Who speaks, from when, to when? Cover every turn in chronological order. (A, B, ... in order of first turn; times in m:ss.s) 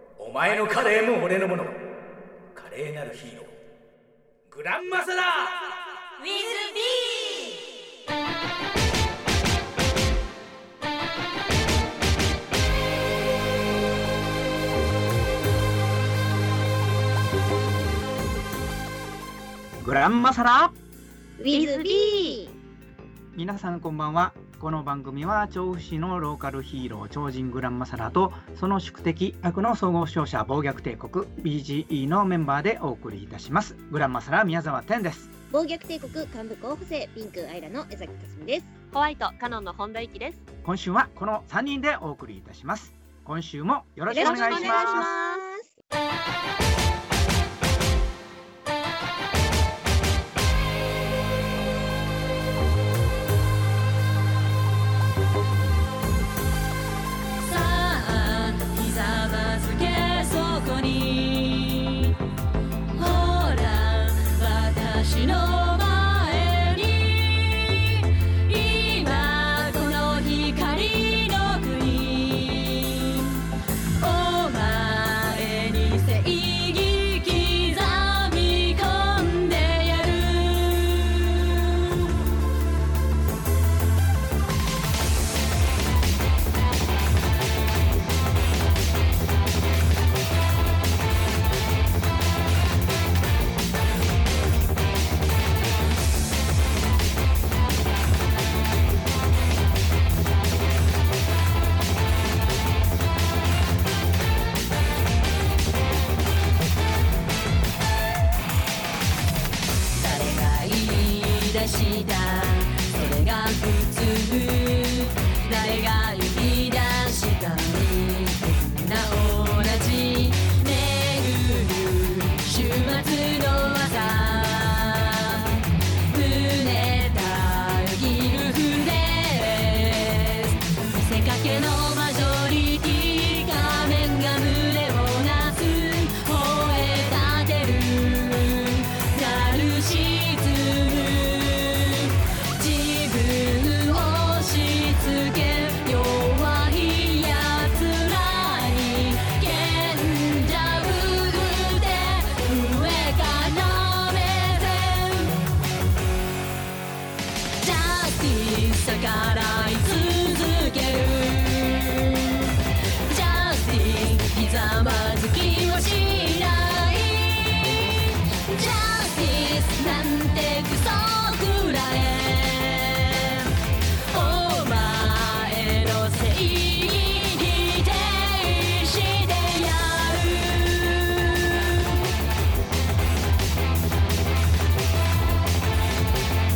0:00.2-0:01.8 A
0:02.5-0:03.5 A
0:04.5-0:06.3 A
0:06.2-0:07.5 B
0:19.8-0:20.7 C
0:21.4-0:22.5 D
0:21.5-0:22.4 E
0:23.3-0:35.3 C
0:35.5-0:38.7 D
0:38.9-0:40.4 E
0:40.6-0:45.1 C
0:44.1-0:45.7 D
0:44.1-0:45.4 E
0:57.4-1:02.1 B
1:02.9-1:13.4 B
1:14.0-1:22.1 B
1:50.0-2:35.4 B
2:37.6-2:53.5 B
2:54.1-3:02.0 B